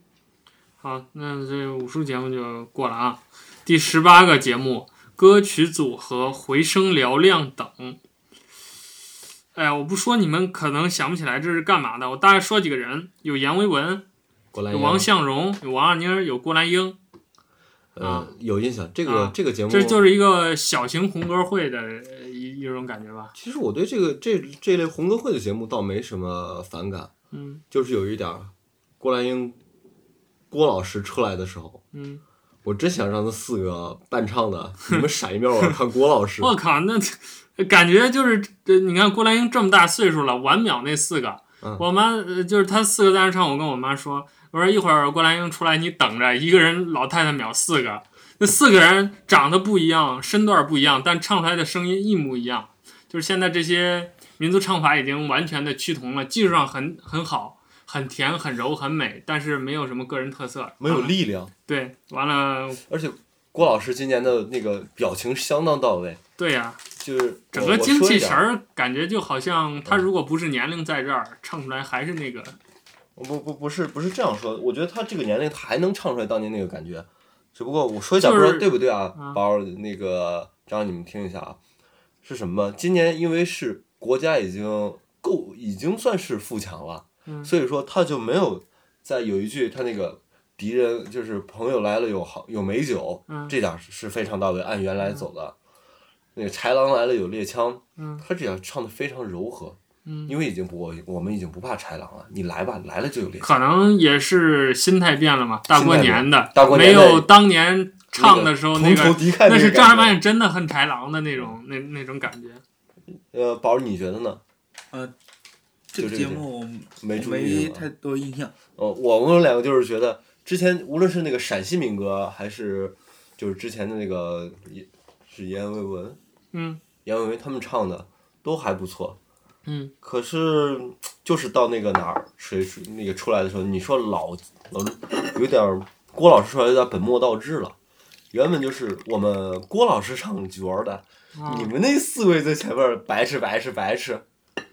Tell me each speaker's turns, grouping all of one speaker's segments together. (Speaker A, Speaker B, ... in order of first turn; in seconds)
Speaker A: 0.8-8.0, 9.5-14.0, 14.7-17.0, 18.0-18.3, 19.1-23.3, 27.3-27.6, 31.9-32.2, 36.4-62.8, 66.4-66.8, 67.5-72.6, 78.2-79.4, 93.3-93.5, 98.0-98.2, 100.0-100.3, 103.4-112.6, 126.5-126.8, 129.7-129.9, 141.3-141.7
Speaker B: 14.5-15.1, 17.9-20.0, 23.3-27.1, 27.7-29.6, 30.5-31.8, 32.6-36.5, 60.8-61.5, 62.9-66.2, 67.0-68.5, 73.2-81.6, 82.2-95.5, 96.3-103.5, 105.7-107.3, 108.1-110.2, 113.3-114.4, 116.0-116.4, 117.0-117.8, 118.8-126.2, 127.0-129.2, 130.0-137.7, 138.3-144.2
Speaker C: 115.9-118.5